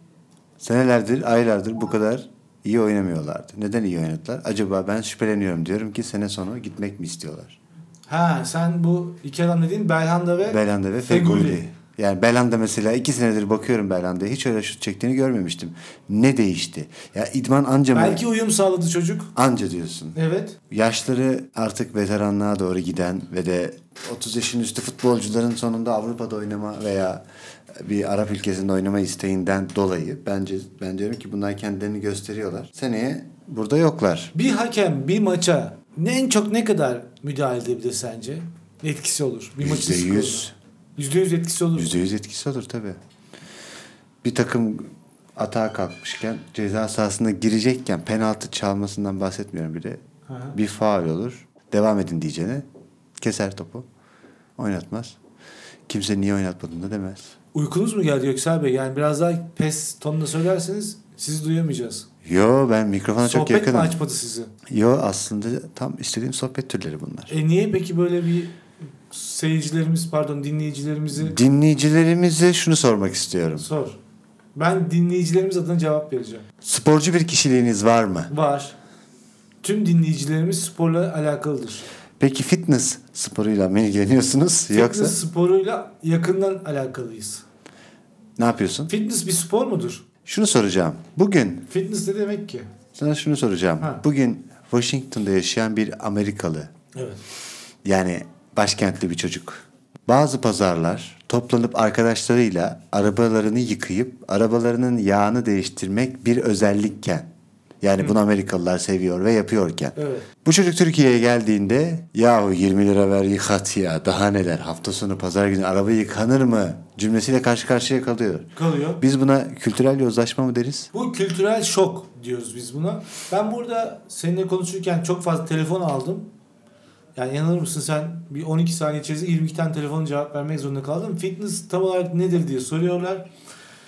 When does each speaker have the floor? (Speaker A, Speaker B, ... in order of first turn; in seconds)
Speaker A: 0.6-7.6, 10.5-18.2, 19.3-20.2, 20.7-27.2, 27.7-34.3, 39.6-40.5, 41.8-43.0, 44.2-50.0, 50.5-52.6, 53.2-53.9, 54.6-55.2, 55.9-57.3, 62.2-64.0, 64.7-67.3, 71.2-73.7, 76.6-78.3, 82.2-85.2, 88.4-88.9, 90.2-91.7, 92.9-96.7, 97.8-107.3, 107.8-120.9
Speaker B: 8.1-11.6, 17.9-19.3, 20.1-20.6, 34.3-42.0, 50.3-50.5, 57.5-62.1, 63.2-64.5, 67.3-68.5, 69.1-71.4, 73.6-74.0, 74.5-76.5, 78.3-78.7, 79.6-81.9, 84.7-87.4, 88.9-90.0, 91.7-92.7, 96.9-97.2, 110.0-110.3, 118.6-119.0, 120.9-126.3, 127.2-133.3